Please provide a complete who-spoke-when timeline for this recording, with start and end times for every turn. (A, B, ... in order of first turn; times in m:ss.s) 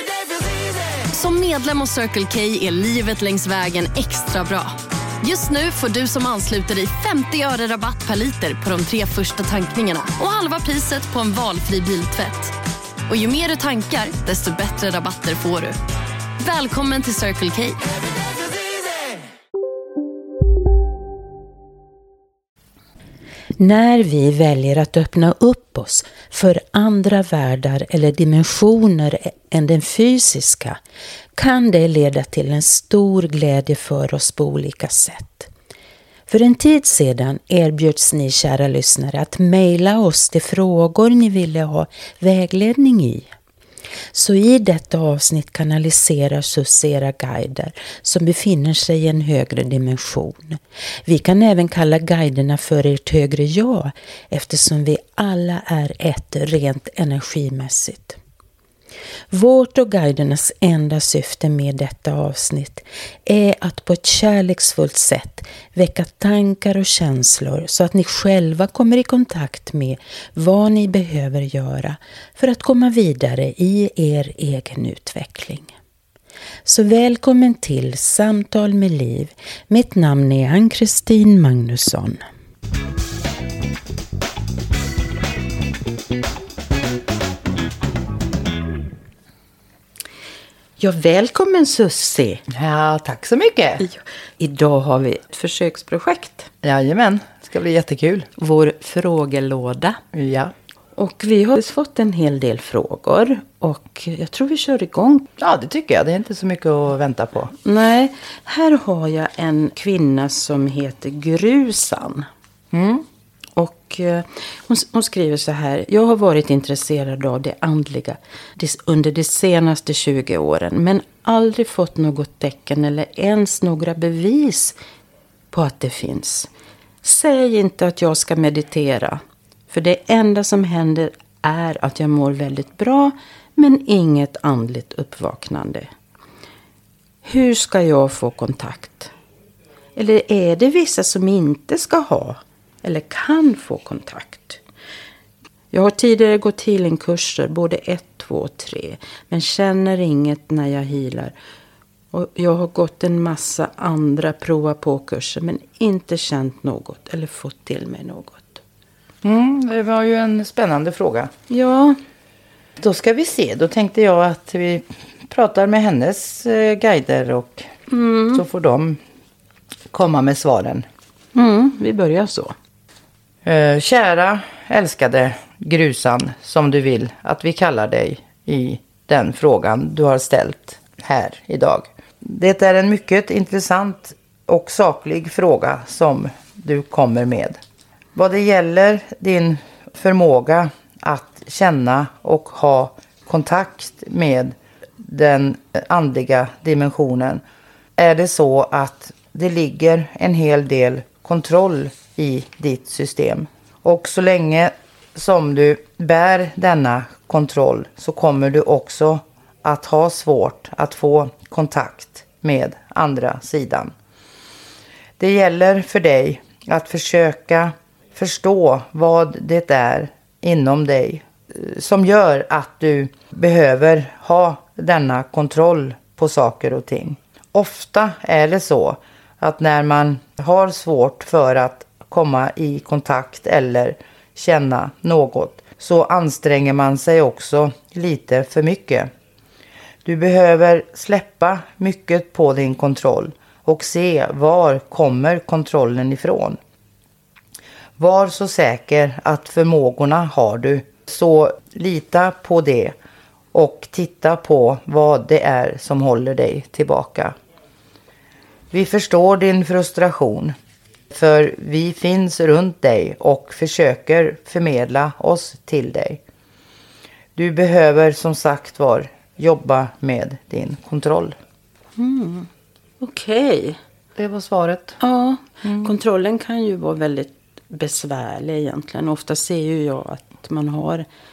0:01.1-0:12.6 A
0:13.1-0:15.8 A
0:16.4-0:17.8 A
0:23.6-0:30.8 B
0:31.4-0:35.5 B
0:36.3-0:43.3 B
0:44.1-0:58.2 B
0:59.3-1:15.8 B
1:16.6-1:22.2 B
1:30.8-1:32.4 B
1:32.5-1:33.9 C
1:33.8-1:36.5 B
1:36.6-1:38.3 C
1:38.4-1:40.0 B
1:40.1-1:40.5 C
1:41.0-1:45.3 B
1:45.4-1:47.5 C
1:47.6-1:52.3 B
1:52.7-1:53.0 C
1:53.6-2:04.8 B
2:05.5-2:06.5 B
2:07.0-2:15.9 B
2:17.2-2:19.1 B
2:20.0-2:24.6 B
2:25.7-2:31.3 B
2:32.1-2:38.6 B
2:39.2-2:41.3 C
2:41.5-2:42.0 B
2:42.8-2:47.7 C
2:47.9-2:48.4 B
2:48.3-2:49.0 C
2:49.9-2:50.9 C
2:51.4-2:52.6 B
2:53.4-3:07.6 C
3:08.2-3:17.4 C
3:18.0-3:33.9 C
3:35.2-3:59.1 C
4:00.0-4:06.6 C
4:08.0-4:13.0 C
4:13.5-4:17.4 C
4:18.7-4:20.6 C
4:21.1-4:26.2 C
4:27.4-4:31.4 C
4:32.0-4:32.5 B
4:33.0-4:33.8 B
4:34.2-4:35.0 C
4:35.0-4:41.1 B